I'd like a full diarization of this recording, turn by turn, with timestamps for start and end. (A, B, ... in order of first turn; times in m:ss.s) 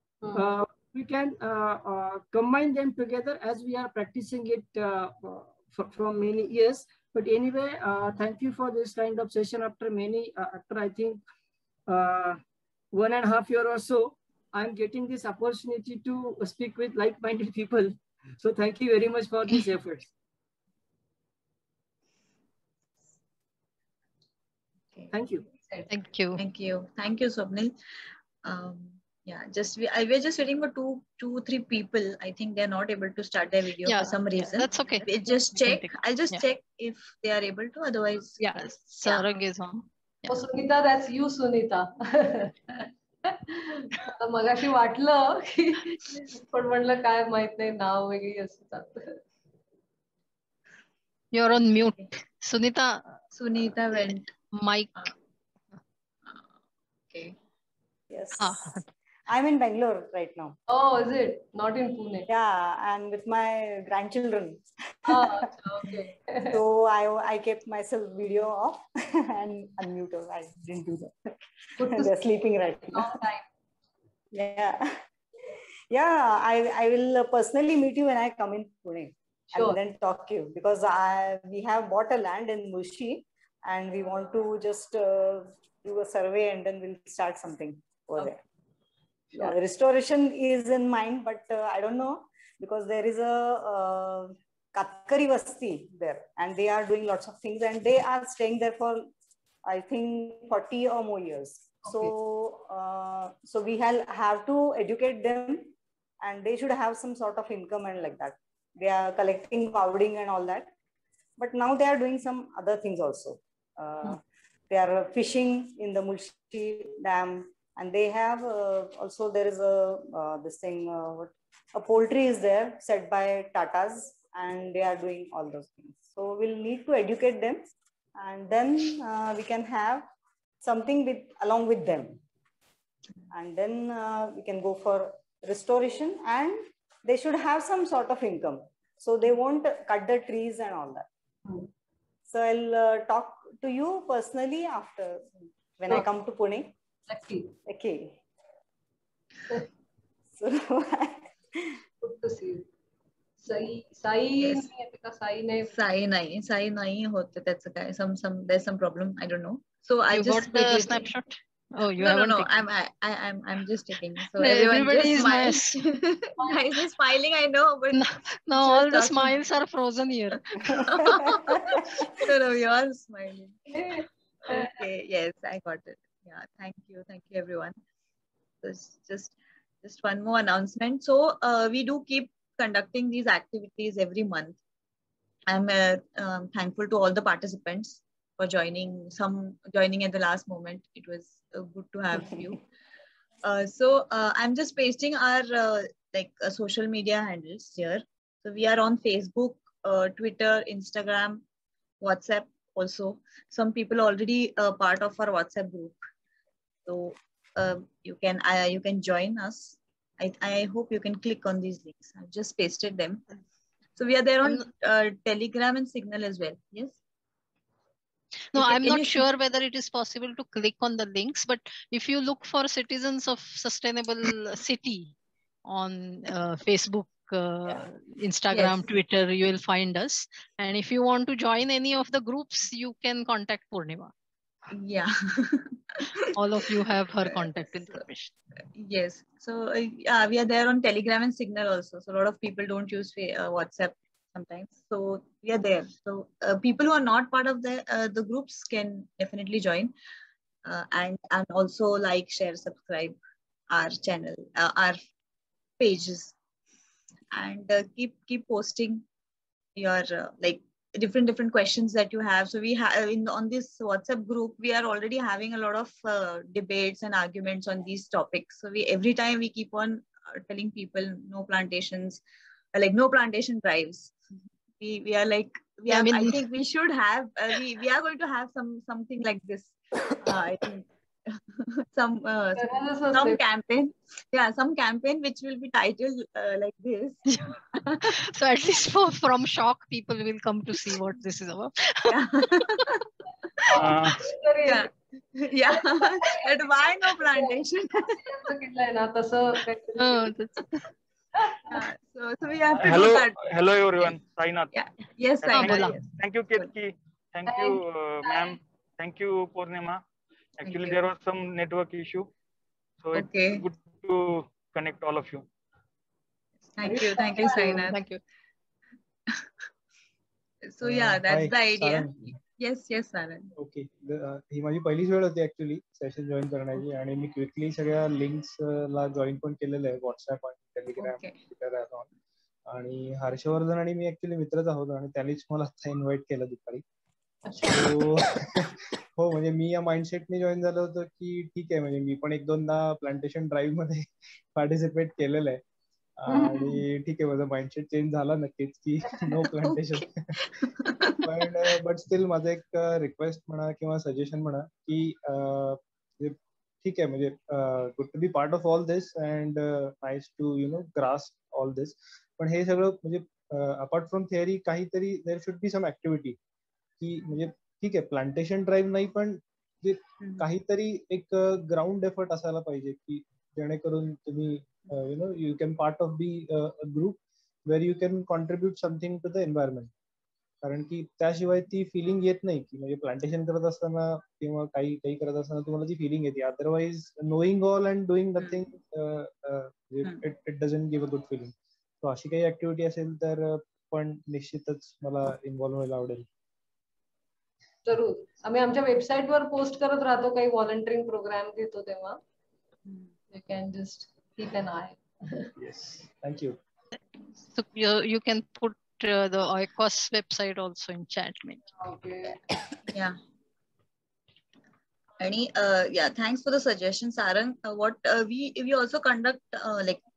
0:00.3-0:11.2 A
0:11.9-0:12.4 A
0:12.9-0:20.1 A
0:25.1-0:25.4 A
0:25.5-0:25.9 B
0:25.9-0:26.4 C
0:26.4-0:27.7 D
0:28.4-0:38.5 D
0:33.8-0:36.4 C
0:38.4-0:39.9 C
0:40.3-0:49.2 B
0:51.3-0:53.1 C
0:53.3-0:54.3 D
0:54.5-0:55.1 C
0:57.1-0:57.4 D
0:58.1-1:00.5 E
0:58.4-0:58.8 C
1:00.7-1:02.2 B
1:02.3-1:05.4 E
1:05.1-1:06.6 B
1:06.5-1:13.2 E
1:11.8-1:12.1 B
1:12.9-1:13.4 B
1:14.3-1:15.0 E
1:15.9-1:28.4 E
1:19.5-1:19.8 B
1:29.3-1:39.1 E
1:39.6-1:50.7 E
1:41.9-1:42.1 B
1:51.4-2:10.0 E
2:10.6-2:12.2 E
2:13.3-2:21.0 E
2:22.3-2:26.7 E
2:27.1-2:27.5 B
2:27.6-2:28.2 E
2:30.3-2:31.8 E
2:32.0-2:32.6 B
2:33.4-2:35.7 B
2:34.4-2:34.7 D
2:35.7-2:41.1 D
2:40.1-2:42.6 C
2:42.0-2:49.4 D
2:44.4-2:45.8 C
2:47.9-2:50.4 C
2:50.6-2:53.8 D
2:53.7-2:54.8 B
2:54.4-2:57.7 D
2:58.6-3:04.6 D
3:05.5-3:12.6 D
3:13.4-3:21.4 D
3:22.0-3:26.0 D
3:26.8-3:33.2 D
3:34.0-3:37.0 D
3:38.5-3:45.1 C
3:38.6-3:39.2 D
3:45.7-3:54.1 C
3:48.5-3:48.8 D
3:54.7-3:56.3 D
3:56.3-3:58.3 C
3:57.2-3:58.0 D
3:58.7-4:09.9 D
4:10.6-4:13.2 D
4:13.7-4:15.0 D
4:15.8-4:16.3 D
4:17.3-4:19.0 D
4:19.8-4:32.2 D
4:32.7-4:34.2 D
4:34.8-4:48.0 D
4:35.9-4:36.4 C
4:42.6-4:43.4 B
4:47.3-4:52.6 C
4:52.1-4:52.9 D
4:53.7-4:54.9 B
4:53.7-4:54.2 F
4:54.6-4:58.2 D
4:55.7-5:00.3 B
5:00.0-5:00.6 C
5:01.4-5:01.8 B
5:01.7-5:04.2 D
5:02.7-5:04.7 F
5:04.7-5:06.7 D
5:05.4-5:10.0 F
5:05.5-5:05.9 C
5:07.5-5:08.5 B
5:10.6-5:12.3 F
5:10.6-5:11.0 D
5:13.0-5:15.4 F
5:13.1-5:13.6 D
5:16.8-5:18.0 D
5:16.8-5:17.9 B
5:17.4-5:18.2 C
5:20.6-5:23.5 D
5:20.8-5:22.1 G
5:23.6-5:32.1 G
5:31.0-5:31.4 D
5:32.7-5:36.8 G
5:37.4-5:38.1 B
5:37.7-5:45.6 G
5:46.2-5:50.6 G
5:46.3-5:46.8 B
5:49.7-5:50.0 D
5:50.6-5:51.2 D
5:51.2-6:06.4 G
6:07.0-6:19.9 G
6:20.6-6:36.2 G
6:37.8-6:42.2 B
6:43.3-6:45.5 B
6:45.6-6:46.6 G
6:47.5-6:51.6 C
6:51.8-6:52.4 B
6:52.9-6:53.2 D
6:55.2-7:00.0 D